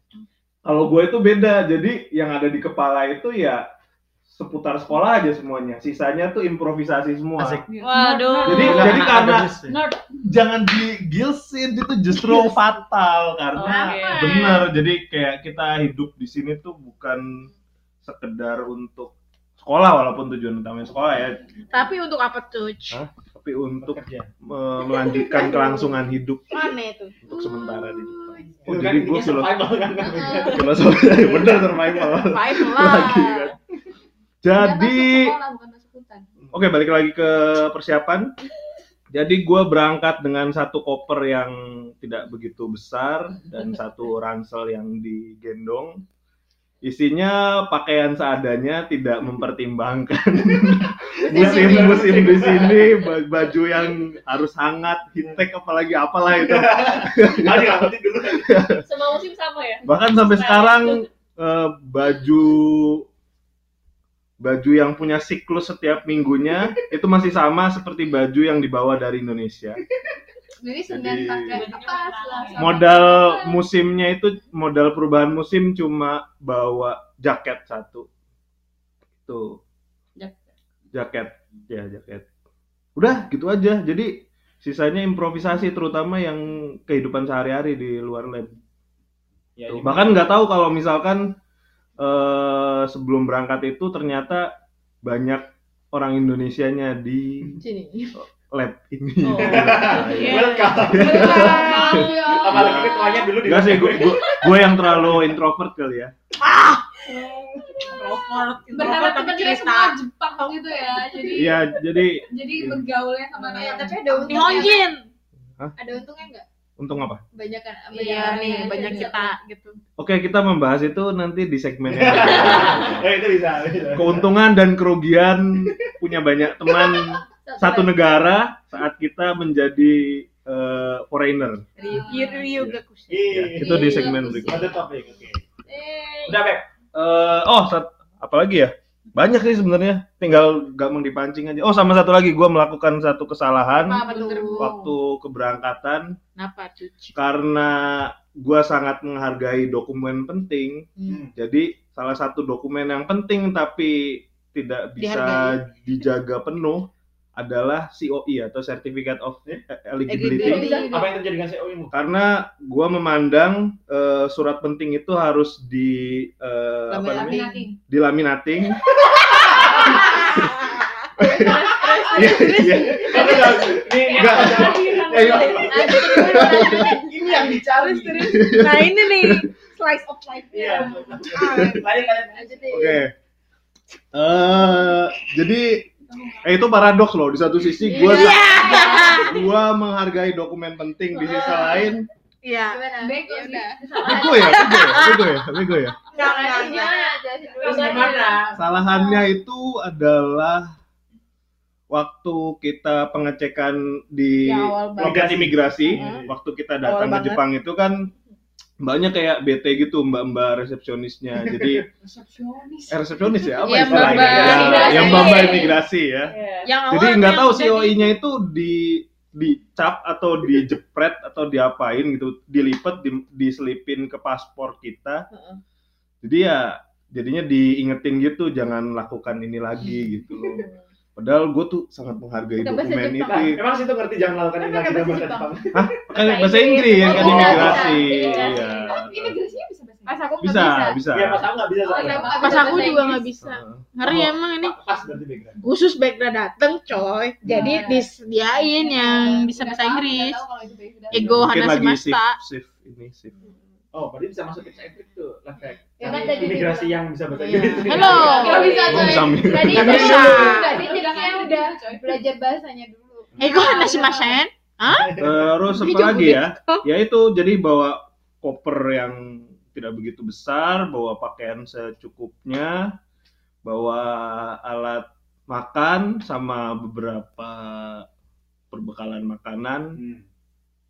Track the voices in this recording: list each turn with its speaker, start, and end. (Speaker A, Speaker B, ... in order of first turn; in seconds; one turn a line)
Speaker A: 0.6-3.6
Speaker A: 4.3-7.7
Speaker B: 7.4-7.7
Speaker C: 7.8-9.1
Speaker D: 7.9-8.5
Speaker E: 8.1-8.4
Speaker A: 8.4-9.6
Speaker B: 8.6-9.8
Speaker E: 9.7-10.0
Speaker A: 10.2-17.5
Speaker C: 13.6-14.4
Speaker F: 13.6-14.6
Speaker A: 18.0-21.4
Speaker F: 21.7-23.0
Speaker A: 22.9-29.8
Speaker B: 23.8-24.3
Speaker F: 26.5-27.1
Speaker D: 27.3-27.9
Speaker B: 28.7-32.2
Speaker D: 30.1-30.6
Speaker A: 30.4-33.5
Speaker F: 32.3-33.5
Speaker A: 34.4-35.4
Speaker D: 34.5-36.3
Speaker A: 36.5-38.3
Speaker A: 39.1-46.0
Speaker A: 46.8-58.8
Speaker B: 51.3-52.9
Speaker D: 51.7-52.1
Speaker B: 56.4-58.6
Speaker C: 58.8-61.0
Speaker A: 59.8-63.0
Speaker A: 64.4-69.8
Speaker D: 70.6-73.6
Speaker A: 70.8-71.7
Speaker E: 71.5-72.9
Speaker A: 72.5-78.1
Speaker A: 79.2-79.6
Speaker A: 80.9-82.3
Speaker A: 83.0-88.6
Speaker B: 89.6-90.2
Speaker A: 89.7-91.3
Speaker A: 92.0-94.5
Speaker A: 95.0-97.6
Speaker G: 97.6-98.1
Speaker A: 98.2-106.1
Speaker F: 99.3-102.3
Speaker B: 99.4-101.6
Speaker D: 101.2-102.7
Speaker G: 101.3-102.3
Speaker B: 102.3-104.3
Speaker B: 105.0-105.2
Speaker F: 106.5-106.9
Speaker D: 107.7-108.1
Speaker E: 107.8-110.0
Speaker D: 108.7-111.8
Speaker A: 111.3-112.9
Speaker D: 112.3-114.7
Speaker F: 113.5-115.0
Speaker G: 113.7-114.8
Speaker E: 114.3-114.7
Speaker G: 115.8-116.5
Speaker A: 116.8-117.2
Speaker G: 117.3-119.3
Speaker F: 117.9-119.8
Speaker D: 118.3-119.1
Speaker A: 120.0-123.0
Speaker B: 121.9-124.2
Speaker A: 123.9-131.7
Speaker G: 127.4-127.9
Speaker D: 131.8-132.5
Speaker F: 131.8-133.1
Speaker A: 132.5-134.7
Speaker B: 133.1-135.4
Speaker F: 133.7-134.3
Speaker D: 133.7-134.6
Speaker B: 136.3-136.7
Speaker A: 136.9-146.2
Speaker D: 143.9-144.8
Speaker F: 143.9-144.8
Speaker F: 146.4-147.1
Speaker A: 147.1-160.8
Speaker F: 151.0-151.2
Speaker F: 155.0-155.6
Speaker F: 160.1-161.1
Speaker D: 160.4-161.2
Speaker B: 160.8-161.8
Speaker A: 161.9-169.8
Speaker F: 166.9-167.6
Speaker D: 167.3-167.8
Speaker F: 169.3-174.9
Speaker A: 171.2-173.2
Speaker C: 171.5-172.4
Speaker B: 172.2-178.4
Speaker C: 174.0-175.9
Speaker A: 174.2-174.5
Speaker F: 175.6-182.1
Speaker G: 175.7-176.8
Speaker A: 178.3-179.5
Speaker B: 180.5-182.4
Speaker G: 182.3-183.0
Speaker A: 182.7-183.1
Speaker A: 184.1-185.9
Speaker A: 186.4-192.0
Speaker F: 187.9-189.3
Speaker G: 187.9-189.2
Speaker D: 188.4-189.2
Speaker G: 191.2-191.8
Speaker F: 192.4-195.3
Speaker G: 192.7-194.3
Speaker D: 193.0-194.8
Speaker A: 194.0-196.0
Speaker B: 194.9-195.7
Speaker F: 196.1-198.4
Speaker G: 196.1-198.4
Speaker D: 196.6-196.9
Speaker D: 197.6-198.3
Speaker B: 198.0-198.3
Speaker E: 198.0-198.5
Speaker A: 198.5-200.7
Speaker A: 201.9-208.1
Speaker F: 204.4-205.3
Speaker B: 205.0-206.3
Speaker F: 205.9-206.3
Speaker F: 206.8-207.4
Speaker A: 208.8-211.9
Speaker F: 212.1-212.9
Speaker A: 212.9-225.2
Speaker F: 213.6-215.7
Speaker B: 213.9-214.8
Speaker D: 214.4-215.7
Speaker C: 214.5-215.7
Speaker C: 216.2-216.7
Speaker F: 216.6-218.2
Speaker A: 226.2-233.6
Speaker F: 232.8-233.2
Speaker B: 233.2-236.2
Speaker F: 234.6-235.5
Speaker A: 235.7-239.4
Speaker G: 236.3-238.7
Speaker D: 236.4-241.0
Speaker B: 237.0-237.9
Speaker F: 237.2-237.9
Speaker F: 240.1-240.6
Speaker A: 240.4-241.5
Speaker B: 241.1-242.5
Speaker D: 241.8-243.2
Speaker F: 242.1-244.8
Speaker G: 242.1-243.0
Speaker A: 243.4-244.3
Speaker B: 244.1-245.5
Speaker F: 245.6-250.4
Speaker D: 247.4-248.1
Speaker D: 248.8-251.4
Speaker F: 251.1-252.4
Speaker A: 251.1-253.3
Speaker B: 253.9-258.4
Speaker G: 256.0-256.9
Speaker D: 256.0-256.8
Speaker F: 256.1-256.6
Speaker F: 257.3-262.0
Speaker G: 257.9-264.3
Speaker D: 258.1-261.8
Speaker A: 258.9-260.4
Speaker B: 259.6-260.4
Speaker F: 263.4-265.1
Speaker B: 263.4-263.7
Speaker D: 263.6-264.2
Speaker A: 265.2-272.9
Speaker F: 265.7-266.8
Speaker A: 273.6-278.1
Speaker A: 278.7-280.0
Speaker B: 280.0-280.2